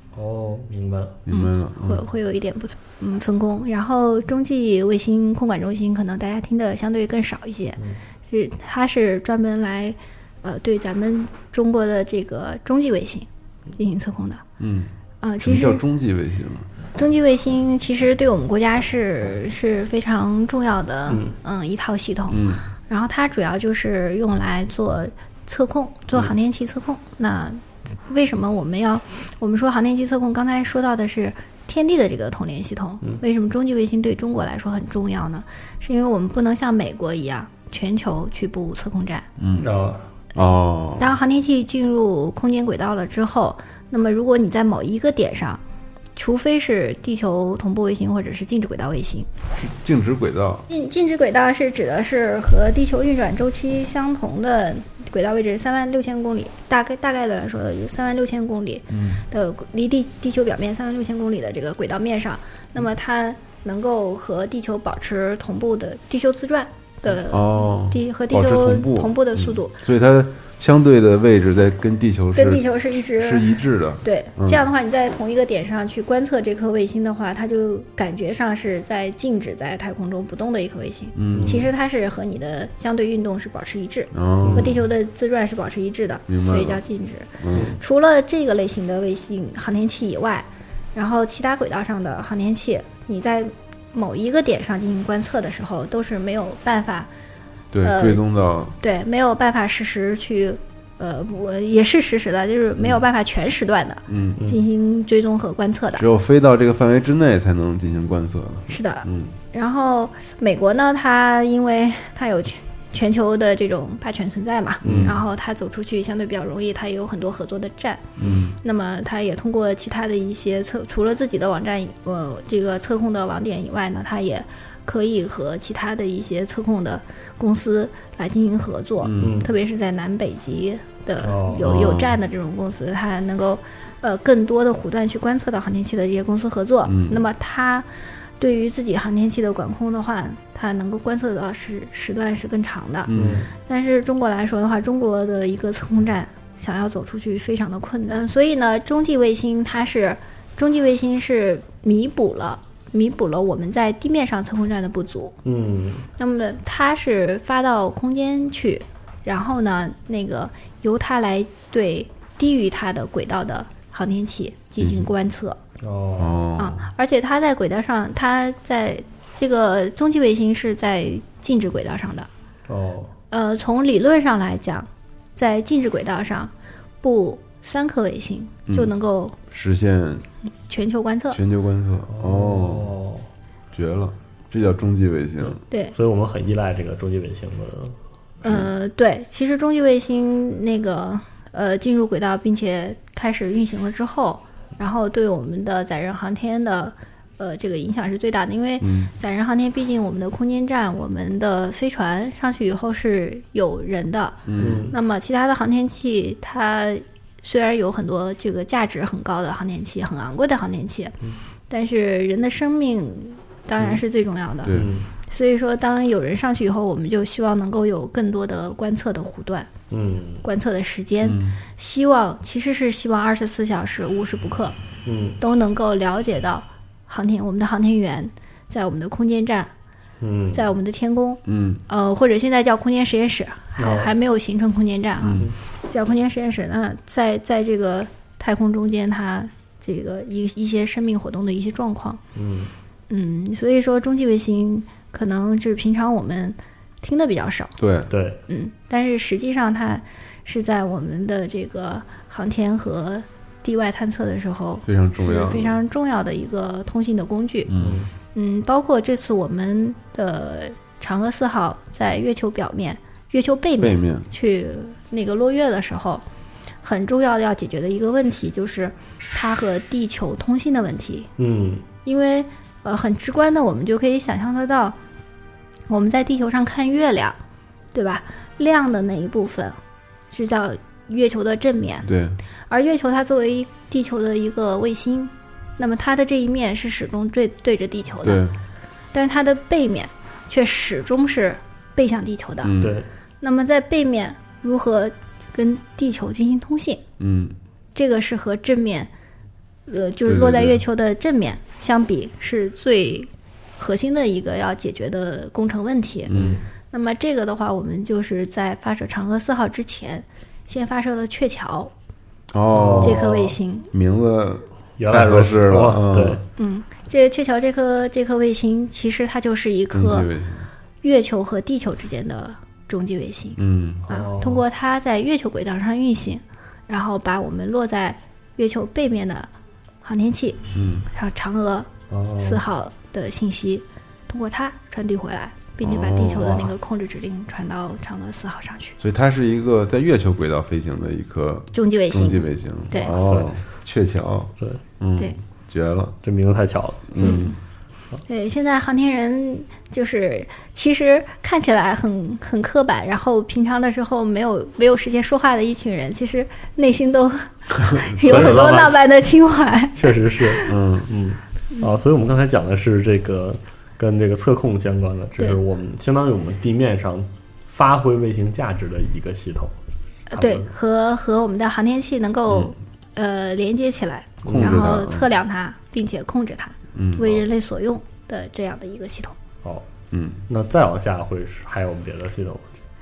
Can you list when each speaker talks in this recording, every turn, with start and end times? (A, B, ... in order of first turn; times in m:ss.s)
0:00.1-0:01.2 A
0:01.3-0:02.0 B
0:01.3-0:14.4 C
0:14.6-0:14.9 B
0:15.2-0:15.8 C
0:15.4-0:16.7 B
0:17.0-0:39.3 C
0:21.1-0:21.4 A
0:22.3-0:22.6 B
0:39.4-0:39.7 B
0:39.6-0:40.1 A
0:40.4-0:41.2 B
0:41.0-0:45.6 C
0:46.2-0:49.3 C
0:49.6-0:50.7 B
0:50.7-1:09.7 C
0:58.9-0:59.2 B
1:07.3-1:12.7 B
1:12.4-1:13.5 C
1:13.2-1:14.6 B
1:14.0-1:37.1 C
1:21.2-1:21.7 B
1:21.3-1:21.7 A
1:24.1-1:24.8 B
1:24.4-1:24.8 A
1:26.3-1:26.8 B
1:27.4-1:27.8 B
1:27.5-1:27.8 A
1:37.7-1:38.8 B
1:37.8-1:38.2 C
1:38.8-1:46.0 C
1:44.1-1:44.4 B
1:46.0-1:49.3 B
1:48.7-2:17.9 C
1:54.8-1:55.2 B
1:54.8-1:55.2 A
1:58.2-1:58.6 B
2:09.0-2:09.4 B
2:09.2-2:09.5 A
2:11.2-2:11.7 A
2:11.6-2:12.2 B
2:16.9-2:17.2 B
2:18.4-2:35.4 C
2:23.1-2:23.5 B
2:23.1-2:23.5 A
2:35.4-2:36.1 A
2:36.2-2:45.6 C
2:44.8-2:45.1 B
2:45.8-2:46.4 A
2:46.2-2:46.9 B
2:46.6-2:52.3 C
2:52.7-2:53.1 A
2:53.3-2:59.4 C
2:58.7-2:58.9 B
2:59.5-3:00.3 B
3:00.7-3:01.4 C
3:01.3-3:02.9 B
3:02.1-3:03.3 A
3:03.7-3:05.6 B
3:05.5-3:08.0 A
3:05.7-3:06.0 C
3:08.4-3:31.2 C
3:08.4-3:08.7 B
3:18.8-3:19.1 B
3:24.5-3:24.9 B
3:24.6-3:25.0 A
3:31.7-3:34.8 C
3:34.6-3:34.9 B
3:34.7-3:35.1 A
3:35.3-3:39.7 C
3:39.9-3:40.4 A
3:40.4-3:44.8 C
3:41.2-3:41.6 B
3:45.0-3:45.4 A
3:45.4-3:49.7 C
3:50.2-3:50.7 A
3:50.5-4:02.2 C
3:51.5-3:51.8 B
3:53.8-3:54.1 A
3:55.2-3:55.5 B
4:02.4-4:02.7 A
4:03.1-4:07.7 C
4:07.8-4:08.1 B
4:08.1-4:08.4 A
4:08.5-4:17.7 C
4:14.9-4:15.8 B
4:17.7-4:18.0 B
4:17.8-4:18.1 A
4:18.3-4:26.2 C
4:23.8-4:24.3 B
4:26.8-4:31.3 C
4:31.4-4:31.8 A
4:32.0-4:35.0 C
4:35.9-4:37.4 C
4:37.9-4:39.8 C
4:40.3-4:42.1 C
4:42.0-4:42.4 B
4:42.7-4:48.4 C
4:48.2-4:48.6 B
4:49.1-4:52.7 C
4:52.6-4:53.0 B
4:52.8-4:53.1 A
4:53.4-4:57.0 C
4:57.2-4:57.6 B
4:58.0-4:59.1 C
4:59.9-5:06.3 C
5:00.2-5:00.8 B
5:06.3-5:06.6 B
5:06.3-5:06.6 A
5:06.9-5:11.9 C
5:12.5-5:13.3 B
5:12.7-5:13.6 A
5:13.0-5:13.9 C
5:13.9-5:16.4 B
5:15.0-5:16.4 A
5:16.6-5:20.3 C
5:19.9-5:20.7 B
5:21.0-5:29.5 C
5:23.6-5:24.1 B
5:24.0-5:24.6 A
5:30.0-5:39.0 C
5:30.7-5:31.1 B
5:32.1-5:32.6 A
5:35.8-5:36.7 B
5:39.0-5:46.2 B
5:41.7-5:43.2 C
5:43.1-5:43.6 A
5:46.2-5:47.4 A
5:47.1-5:47.5 B
5:47.2-5:47.6 C
5:48.3-6:00.7 C
5:57.9-5:58.6 B
5:58.2-5:59.0 A
6:00.0-6:09.8 A
6:00.7-6:01.1 B
6:10.3-6:10.7 A
6:10.3-6:19.4 C
6:12.5-6:12.7 B
6:14.4-6:14.8 A
6:14.5-6:15.3 B
6:16.9-6:17.4 B
6:20.1-6:20.4 B
6:20.5-6:22.7 A